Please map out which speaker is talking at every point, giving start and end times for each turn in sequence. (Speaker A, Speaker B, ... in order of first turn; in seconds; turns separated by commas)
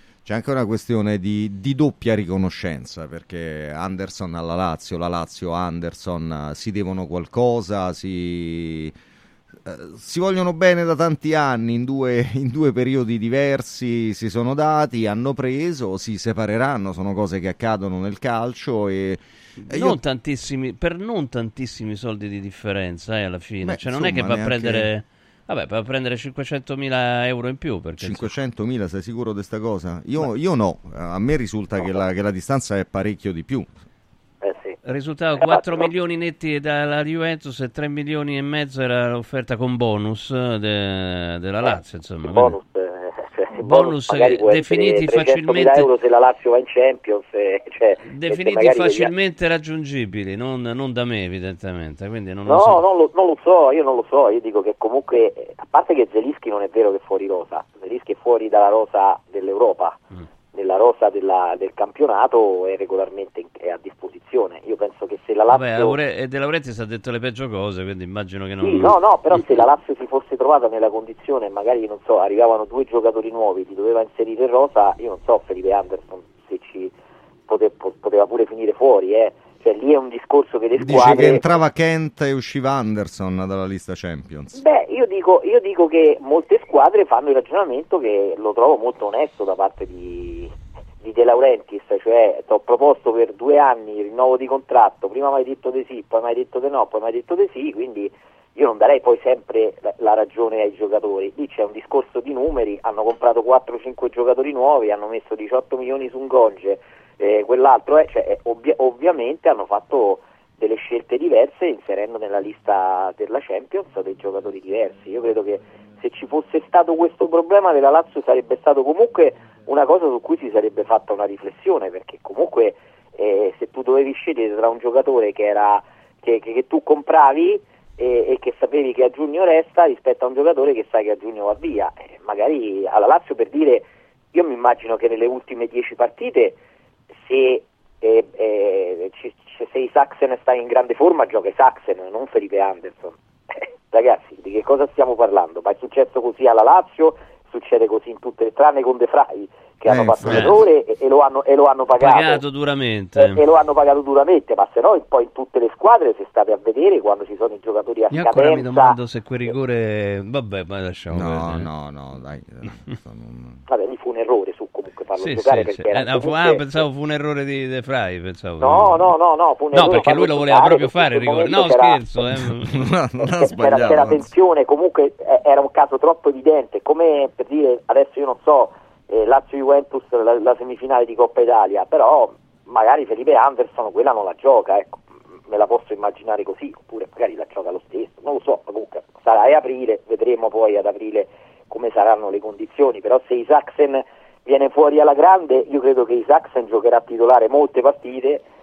Speaker A: 0.2-8.9, Speaker A: 9.6-20.0, Speaker B: 19.6-28.3, Speaker A: 23.6-24.9, Speaker A: 28.0-33.7, Speaker C: 34.4-34.8, Speaker B: 34.8-42.5, Speaker C: 35.4-35.9, Speaker C: 41.6-49.1, Speaker B: 43.6-45.9, Speaker B: 48.1-52.8, Speaker C: 52.5-60.0, Speaker C: 60.5-66.0, Speaker B: 65.5-69.4, Speaker C: 68.6-76.9, Speaker C: 77.5-81.4, Speaker A: 80.8-84.6, Speaker C: 84.6-90.5, Speaker C: 91.0-136.6, Speaker C: 137.2-143.2, Speaker C: 143.9-152.4, Speaker A: 149.9-150.5, Speaker B: 150.2-150.6, Speaker B: 152.0-153.4, Speaker C: 153.2-159.0, Speaker B: 158.1-161.7, Speaker A: 161.1-163.6, Speaker C: 163.7-166.6, Speaker B: 165.2-169.0, Speaker C: 168.6-172.0, Speaker B: 169.7-172.7, Speaker A: 172.6-174.3, Speaker C: 173.4-198.4